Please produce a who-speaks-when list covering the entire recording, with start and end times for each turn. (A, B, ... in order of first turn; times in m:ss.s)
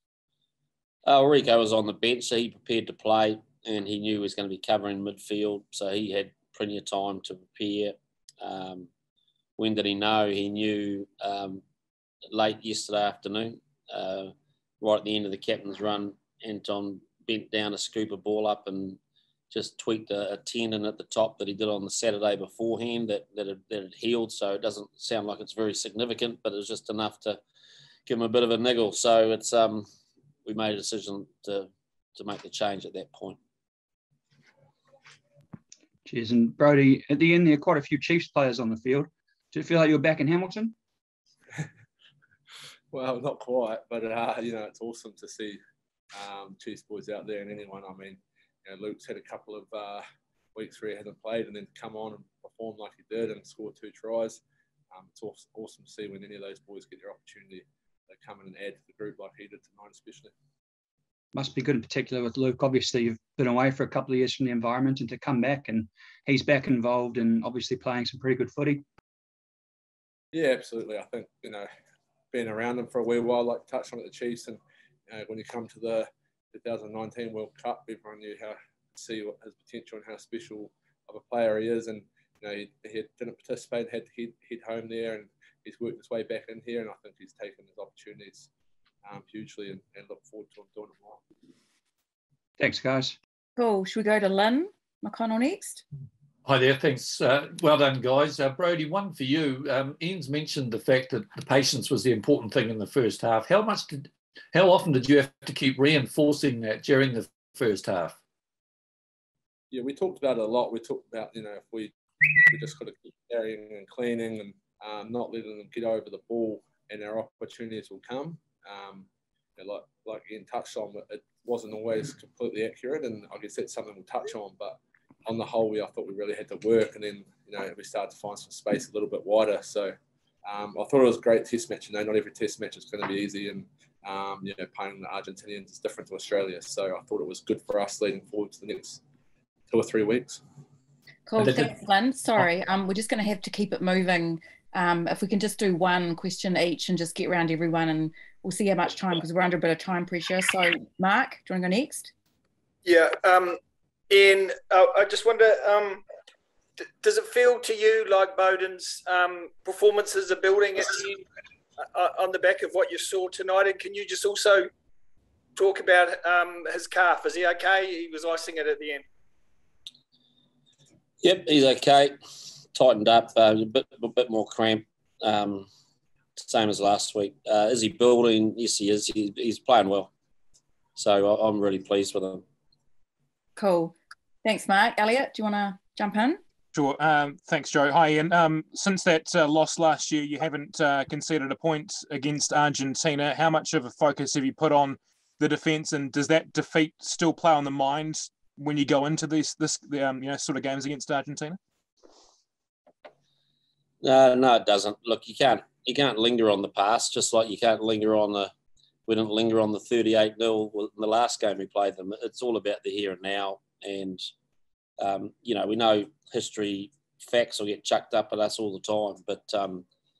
0:01.0-0:08.9 A
0:09.6-0:11.6 A
0:12.3-0:19.0 A
0:19.5-0:27.4 A
0:28.1-0:29.8 A
0:30.4-0:33.4 A
0:36.0-0:40.7 B
0:42.9-0:45.6 C
0:46.1-0:50.0 C
0:50.5-0:54.4 C
0:54.9-1:00.3 C
1:01.3-1:08.8 B
1:10.3-1:11.7 C
1:12.3-1:28.5 C
1:29.0-1:31.2 C
1:32.6-1:33.2 B
1:33.6-1:35.8 D
1:36.4-1:48.1 E
1:49.7-1:51.9 C
1:52.5-2:19.0 C
2:19.7-2:20.4 C
2:21.2-2:32.1 D
2:21.4-2:21.7 E
2:32.8-2:33.6 F
2:34.1-2:36.0 F
2:36.8-2:41.2 F
2:41.8-2:44.7 F
2:45.5-2:49.0 F
2:51.2-2:52.1 A
2:52.7-2:55.7 A
2:56.4-3:00.1 A
3:01.0-3:02.4 A
3:03.6-3:06.4 D
3:06.7-3:21.6 G
3:24.0-3:28.5 A
3:29.1-3:34.2 A
3:35.0-3:39.8 A